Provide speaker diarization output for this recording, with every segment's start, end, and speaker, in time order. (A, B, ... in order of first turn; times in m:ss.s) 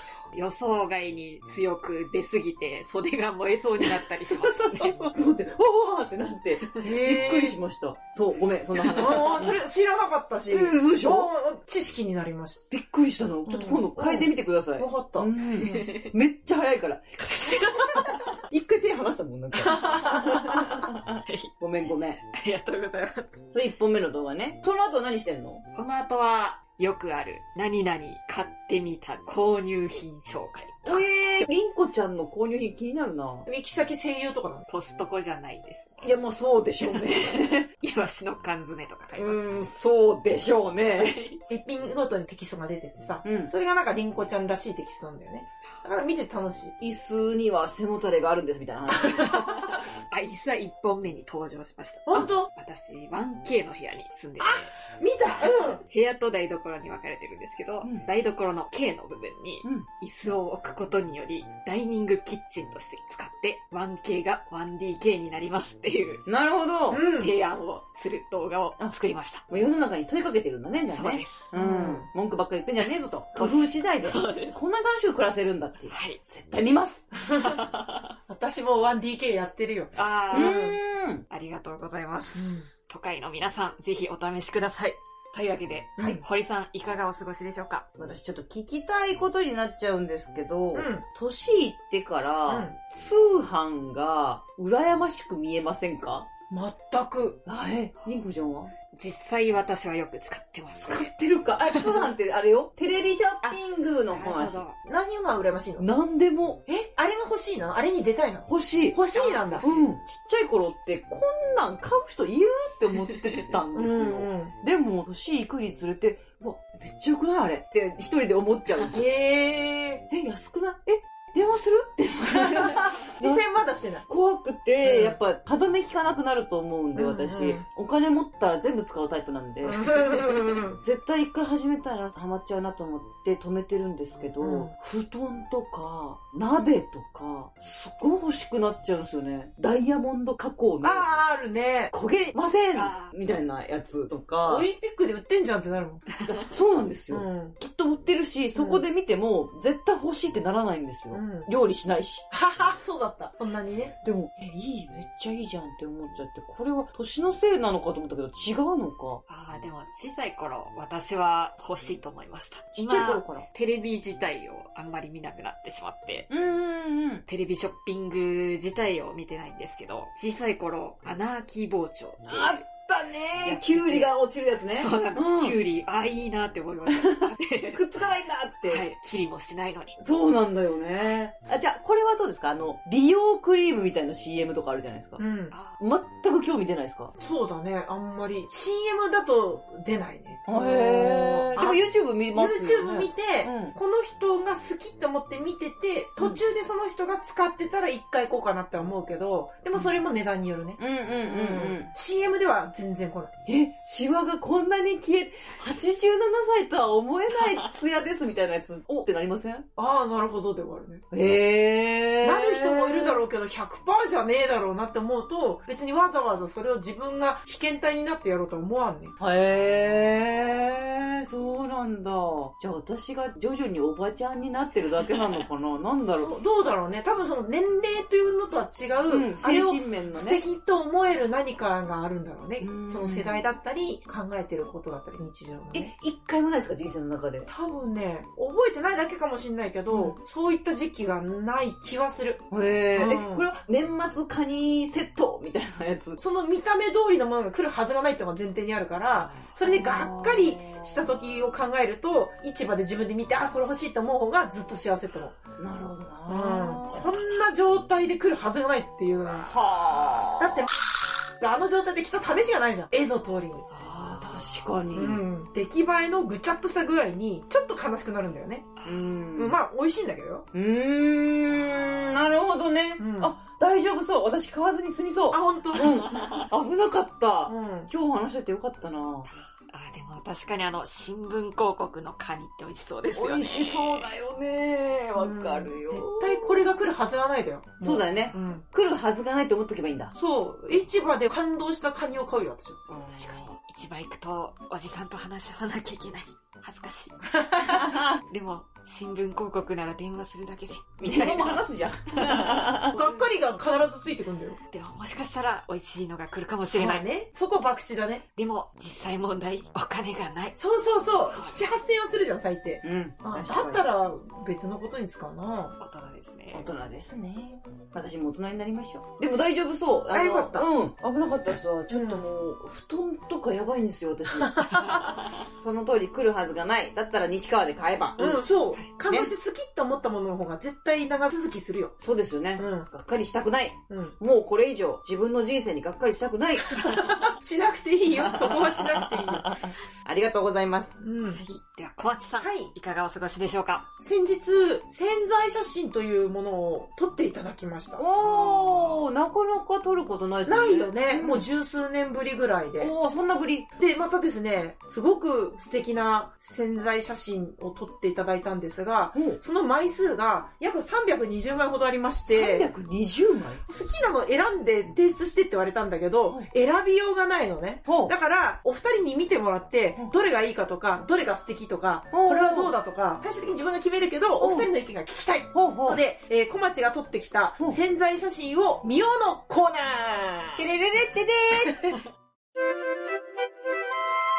0:00.3-0:05.0 A
0:04.0-0:09.6 B
0:06.8-0:07.6 C
0:08.9-0:12.6 C
0:10.5-0:11.3 B
0:12.7-0:22.2 B
0:13.4-0:15.3 C
0:15.4-0:16.1 A
0:17.2-0:18.3 A
0:19.6-0:20.2 C
0:21.2-0:21.5 A
0:22.2-0:23.4 A
0:23.5-0:25.6 B
0:25.7-0:31.5 A
0:30.8-0:33.5 B
0:33.4-0:34.6 C
0:34.7-0:36.2 A
0:36.0-0:37.7 B
0:37.8-0:39.7 A
0:39.1-0:41.2 B
0:40.9-0:41.4 A
0:41.5-0:46.7 C
0:43.2-0:43.5 B
0:46.8-0:49.5 B
0:48.9-0:54.7 A
0:52.1-0:52.5 C
0:54.4-0:55.8 C
0:55.3-1:06.2 A
1:06.2-1:07.1 B
1:06.9-1:07.3 C
1:07.1-1:09.4 A
1:09.5-1:17.1 B
1:10.9-1:11.5 A
1:11.5-1:12.1 C
1:13.3-1:14.6 A
1:15.9-1:16.2 A
1:17.3-1:17.6 C
1:17.4-1:18.1 A
1:18.3-1:20.7 C
1:20.0-1:20.7 A
1:20.3-1:21.2 B
1:21.3-1:27.9 A
1:22.4-1:22.7 C
1:26.0-1:26.2 C
1:28.0-1:36.3 B
1:30.7-1:31.0 C
1:32.5-1:32.7 C
1:36.5-1:37.4 C
1:37.4-1:38.7 B
1:38.0-1:38.2 A
1:38.9-1:41.1 A
1:40.8-1:44.6 B
1:41.7-1:42.1 A
1:43.4-1:44.8 A
1:44.8-1:45.9 C
1:45.8-1:46.9 B
1:46.9-1:49.8 C
1:48.5-1:49.0 B
1:49.1-1:49.8 A
1:49.6-1:59.0 B
1:53.7-1:54.5 C
1:58.9-2:00.0 C
2:00.1-2:03.4 B
2:02.3-2:04.0 C
2:04.0-2:21.0 B
2:04.8-2:05.2 C
2:07.0-2:07.6 C
2:09.6-2:10.8 C
2:14.4-2:14.7 C
2:20.8-2:21.9 C
2:21.9-2:24.7 B
2:22.7-2:23.1 A
2:24.4-2:26.1 C
2:26.2-2:32.2 B
2:27.1-2:27.6 C
2:28.6-2:28.8 C
2:31.1-2:31.5 C
2:32.3-2:34.0 C
2:34.0-2:39.2 B
2:39.3-2:46.3 A
2:42.7-2:43.5 B
2:46.3-2:47.2 B
2:47.3-2:52.6 A
2:52.2-2:55.6 B
2:53.4-2:54.1 A
2:54.8-2:57.8 A
2:56.9-2:58.8 B
2:58.6-3:00.0 A
3:00.0-3:05.2 B
3:05.2-3:05.5 C
3:05.5-3:05.8 A
3:05.8-3:07.1 B
3:07.2-3:23.3 C
3:10.5-3:13.7 B
3:20.8-3:21.9 B
3:23.4-3:29.7 B
3:27.4-3:27.7 A
3:29.8-3:31.0 C
3:31.1-3:33.2 B
3:32.2-3:39.2 C
3:39.2-3:46.4 B
3:46.2-3:55.9 C
3:49.1-3:50.4 B
3:52.6-3:53.4 B
3:55.7-3:57.5 B
3:57.5-4:03.5 C
3:59.9-4:00.2 B
4:02.5-4:06.2 B
4:06.2-4:15.4 C
4:09.6-4:10.9 B
4:15.6-4:17.2 B
4:16.3-4:19.5 C
4:19.4-4:20.7 B
4:20.4-4:20.7 C
4:21.4-4:23.6 C
4:23.7-4:25.2 B
4:24.9-4:28.8 C
4:28.8-4:29.1 A
4:28.8-4:29.6 B
4:29.3-4:30.4 C
4:30.5-4:39.3 B
4:33.0-4:33.4 C
4:35.3-4:36.0 C
4:36.0-4:36.4 A
4:37.5-4:37.9 C
4:39.6-4:44.1 A
4:43.1-4:46.7 B
4:45.2-4:48.6 C
4:47.8-4:50.1 B
4:50.1-4:52.8 C
4:52.9-4:53.4 B
4:53.0-5:02.6 A
4:57.3-4:57.8 C
4:57.6-4:58.2 B
5:01.0-5:03.0 B
5:02.9-5:04.6 C
5:04.7-5:07.0 A
5:06.8-5:08.2 C
5:08.4-5:10.6 A
5:10.6-5:15.7 C
5:11.3-5:11.6 A
5:12.8-5:13.8 B
5:15.8-5:16.7 A
5:16.5-5:28.5 B
5:20.1-5:20.7 C
5:21.9-5:22.2 C
5:24.4-5:25.0 C
5:24.8-5:25.3 A
5:28.2-5:32.0 C
5:29.1-5:29.3 B
5:32.0-5:37.1 B
5:32.6-5:32.9 C
5:33.9-5:34.2 C
5:36.8-5:39.6 C
5:38.1-5:41.0 B
5:41.0-5:41.4 C
5:41.2-5:43.9 A
5:42.4-5:42.7 C
5:44.0-5:48.0 C
5:48.0-5:51.4 B
5:48.2-5:49.0 A
5:50.4-5:52.9 C
5:52.8-5:53.7 B
5:53.8-6:02.7 C
5:59.1-5:59.4 B
6:02.3-6:03.6 B
6:03.7-6:20.7 C
6:07.8-6:08.1 B
6:12.1-6:12.7 B
6:14.4-6:14.7 B
6:15.5-6:16.0 B
6:20.6-6:22.0 B
6:21.7-6:22.0 C